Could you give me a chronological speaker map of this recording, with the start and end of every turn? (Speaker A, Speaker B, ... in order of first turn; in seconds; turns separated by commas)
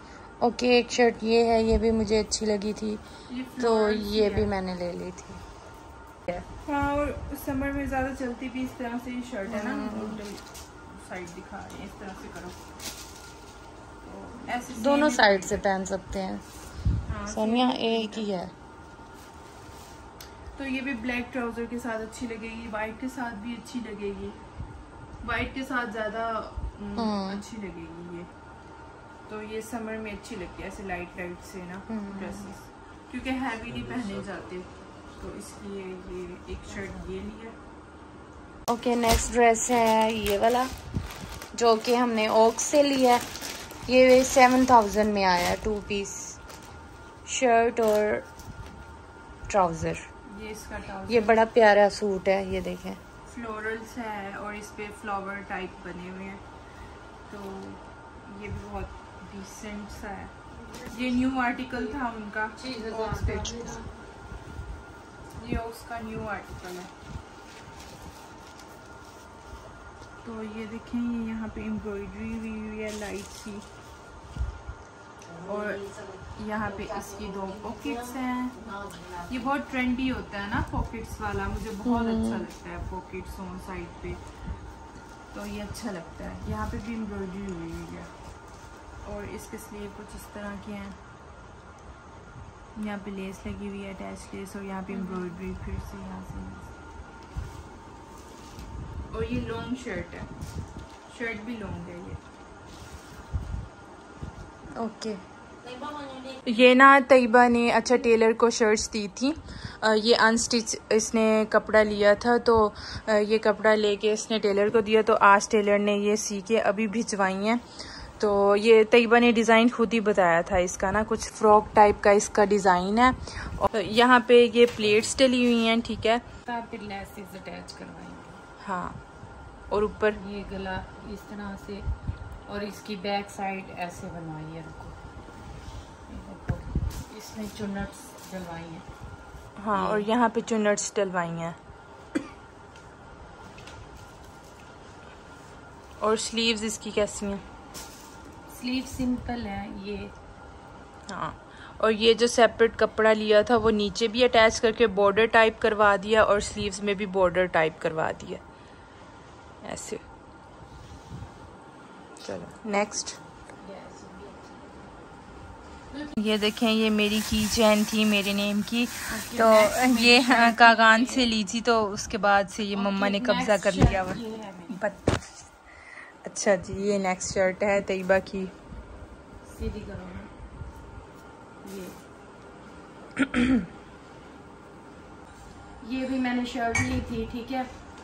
Speaker A: 0.4-3.0, Speaker B: 3.3-4.5, Speaker A: 3.6-5.4, Speaker B: 6.3-12.6, Speaker A: 9.5-10.2, Speaker B: 14.0-15.7, Speaker A: 14.7-16.4, Speaker B: 17.1-18.3, Speaker A: 17.3-18.5, Speaker B: 20.6-24.4, Speaker B: 25.2-28.3, Speaker A: 26.9-27.4, Speaker B: 29.3-37.5, Speaker A: 31.9-32.5, Speaker A: 38.7-40.7, Speaker A: 41.5-43.2, Speaker A: 43.9-46.4, Speaker A: 47.2-48.2, Speaker A: 49.5-50.0, Speaker B: 50.3-51.4, Speaker A: 51.1-53.0, Speaker B: 53.3-56.4, Speaker B: 57.3-60.3, Speaker A: 60.6-62.0, Speaker B: 60.9-63.8, Speaker A: 62.5-63.9, Speaker B: 65.4-66.9, Speaker B: 70.2-73.7, Speaker A: 75.3-79.5, Speaker B: 75.4-75.8, Speaker B: 76.3-78.5, Speaker B: 79.3-84.2, Speaker A: 81.9-82.4, Speaker B: 85.3-88.1, Speaker B: 89.0-91.0, Speaker B: 92.8-96.7, Speaker A: 94.9-95.3, Speaker B: 99.1-100.3, Speaker B: 101.1-102.2, Speaker A: 104.8-105.2, Speaker B: 106.5-126.2, Speaker A: 126.5-128.4, Speaker B: 128.6-129.0, Speaker B: 129.7-130.2, Speaker A: 130.2-131.8, Speaker A: 132.5-134.9, Speaker A: 136.1-138.8, Speaker B: 139.6-141.6, Speaker A: 139.7-140.1, Speaker B: 146.0-147.4, Speaker A: 148.5-150.1, Speaker B: 151.1-158.4, Speaker B: 159.6-160.0, Speaker B: 162.2-163.2, Speaker A: 163.6-164.9, Speaker A: 165.9-166.1, Speaker B: 166.2-175.2, Speaker A: 169.1-171.3, Speaker A: 172.7-174.8, Speaker B: 176.2-178.5, Speaker A: 179.4-180.3, Speaker A: 181.6-182.0, Speaker A: 185.8-187.7